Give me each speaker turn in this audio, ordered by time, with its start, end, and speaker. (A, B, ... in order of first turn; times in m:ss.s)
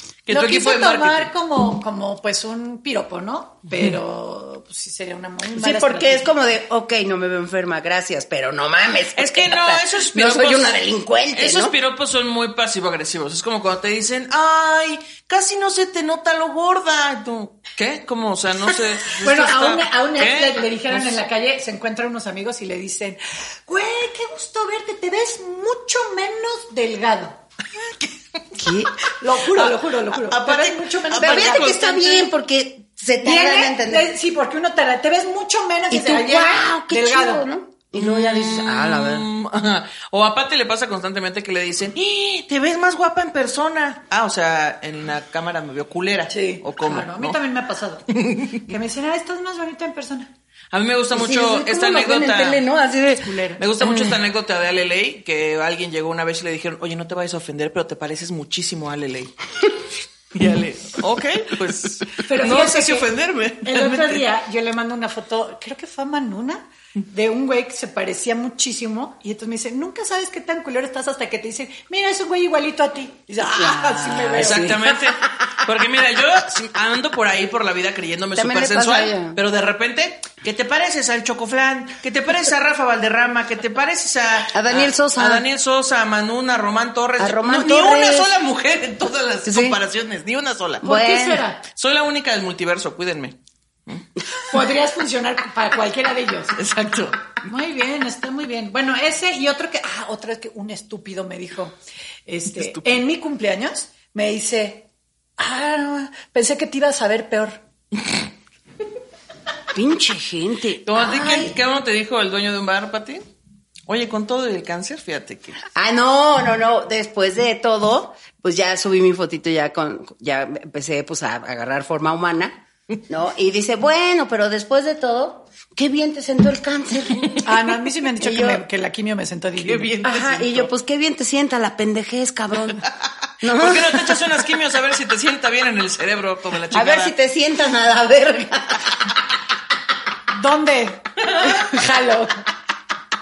0:00.3-0:01.3 A
0:00.3-0:06.3 B
0:05.5-0:11.8 C
0:09.2-0:10.8 A
0:11.3-0:21.2 A
0:19.2-0:27.4 B
0:28.6-0:28.9 C
0:29.2-0:31.8 B
0:29.6-0:32.3 A
0:31.2-0:34.1 C
0:33.2-0:37.5 B
0:35.9-0:39.3 C
0:38.0-0:47.4 A
0:46.3-0:50.3 B
0:48.1-0:48.6 A
0:50.7-0:52.6 A
0:51.1-0:54.2 C
0:53.2-0:53.6 B
0:53.6-0:59.3 A
1:00.3-1:04.2 A
1:02.2-1:03.1 B
1:03.6-1:14.9 B
1:13.5-1:15.0 C
1:14.4-1:30.9 A
1:18.4-1:19.4 C
1:24.5-1:25.4 C
1:27.2-1:28.3 C
1:29.4-1:29.8 C
1:30.8-1:31.4 C
1:30.8-1:31.6 B
1:31.7-1:33.4 A
1:34.5-1:36.6 B
1:36.6-1:37.3 A
1:37.4-1:44.9 B
1:42.6-1:43.0 A
1:45.4-1:47.6 B
1:49.7-1:51.6 C
1:50.8-1:53.2 A
1:53.9-1:55.6 A
1:55.7-2:07.5 C
2:07.4-2:10.0 B
2:08.2-2:08.6 C
2:09.6-2:10.7 A
2:10.0-2:12.9 C
2:13.4-2:14.2 C
2:13.4-2:17.1 A
2:16.7-2:19.1 C
2:20.3-2:22.5 B